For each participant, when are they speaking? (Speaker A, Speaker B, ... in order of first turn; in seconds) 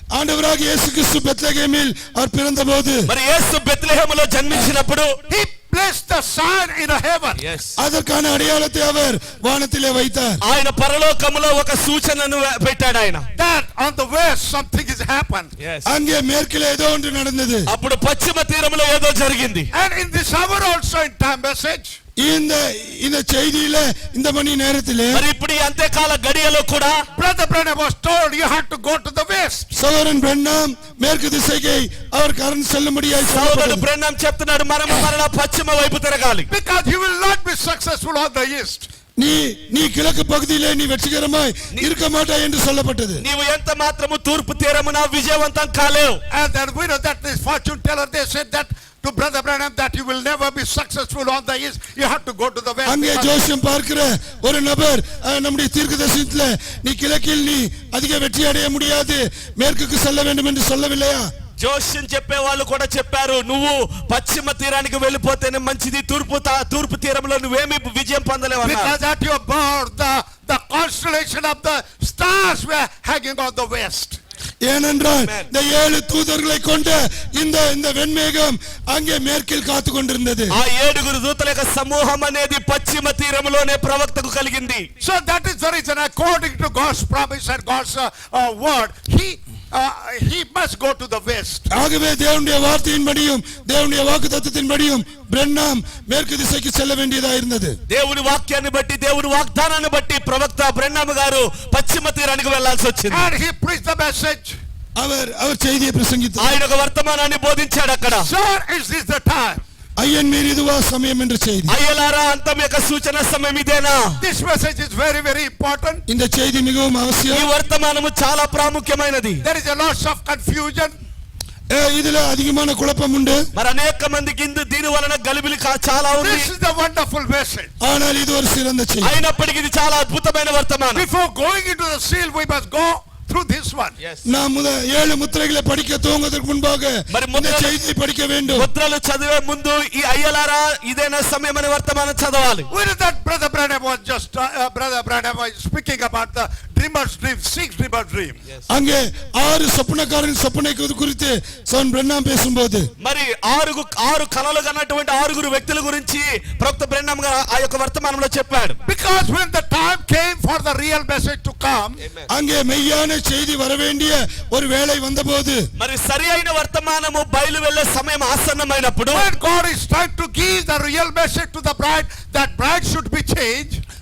Speaker A: 0.1-3.0, 7.8-10.4, 15.8-17.7, 22.2-25.2, 29.7-33.8, 39.2-43.2, 52.8-61.3, 74.6-80.5, 91.7-97.8, 105.0-106.5, 110.0-111.7, 116.1-117.5, 121.7-123.4, 127.8-129.1, 134.2-138.7, 148.7-152.9, 162.3-165.6
Speaker B: 3.0-5.2, 7.4-7.8, 10.4-13.3, 15.6-15.9, 17.7-19.7, 25.1-27.0, 33.2-36.5, 43.2-46.2, 61.6-69.0, 80.5-84.9, 97.9-103.3, 106.4-108.3, 111.7-114.2, 117.3-119.4, 123.5-126.5, 129.0-131.1, 137.1-137.8, 138.5-142.7, 153.0-158.8, 165.8-169.3
Speaker C: 5.3-7.4, 13.3-15.5, 19.7-22.0, 27.1-29.7, 36.5-38.9, 46.3-53.5, 68.6-74.2, 85.0-91.6, 103.1-104.5, 108.1-109.6, 114.2-116.0, 119.4-120.9, 126.2-127.7, 130.9-133.9, 142.7-148.4, 158.8-162.0, 169.1-173.8